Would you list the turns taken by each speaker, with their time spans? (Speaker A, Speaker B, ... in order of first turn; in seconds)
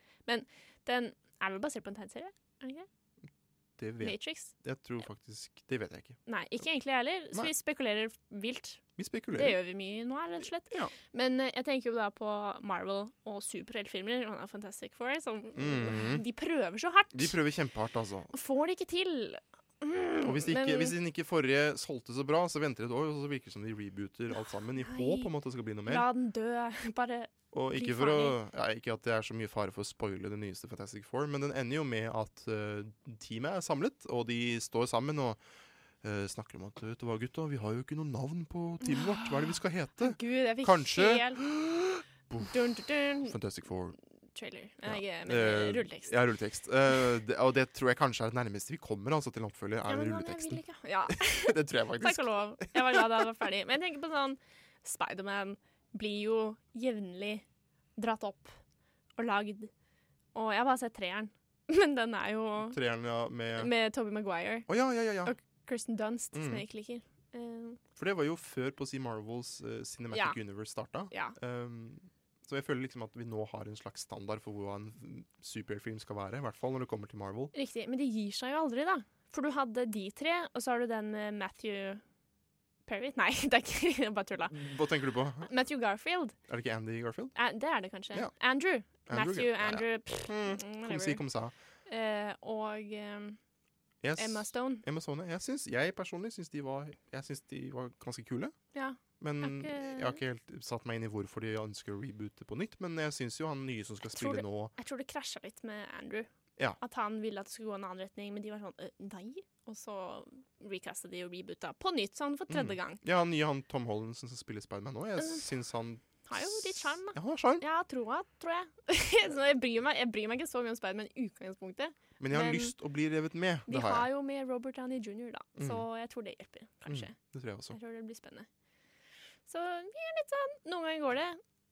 Speaker A: 0.3-2.9, 4.0-4.5, 6.3-8.8, 9.4-17.4, 18.3-20.9, 24.3-25.3, 25.9-28.4, 38.8-41.4, 42.4-43.4, 44.3-46.1, 49.9-57.5, 58.0-58.6, 59.2-59.7, 60.4-62.8, 63.6-64.7, 65.2-67.8, 70.1-70.4, 71.1-71.4, 77.5-82.0, 82.9-84.5, 85.4-86.3, 87.3-91.2, 91.9-93.4, 94.2-94.8, 98.7-100.2, 104.1-106.3, 106.8-113.0, 115.2-115.5, 116.2-122.7, 123.7-127.2, 127.7-128.5, 129.5-131.4
Speaker B: 3.8-6.2, 9.0-9.6, 15.6-16.2, 17.1-18.3, 20.2-26.1, 27.5-35.4, 36.0-42.6, 43.2-44.0, 44.9-50.6, 51.2-53.1, 62.6-63.7, 64.7-65.3, 66.3-66.6, 68.0-77.5, 84.5-85.5, 86.5-87.3, 89.0-91.5, 94.0-98.5, 99.2-104.7, 112.5-117.6, 122.2-124.1, 125.6-125.8, 126.9-127.8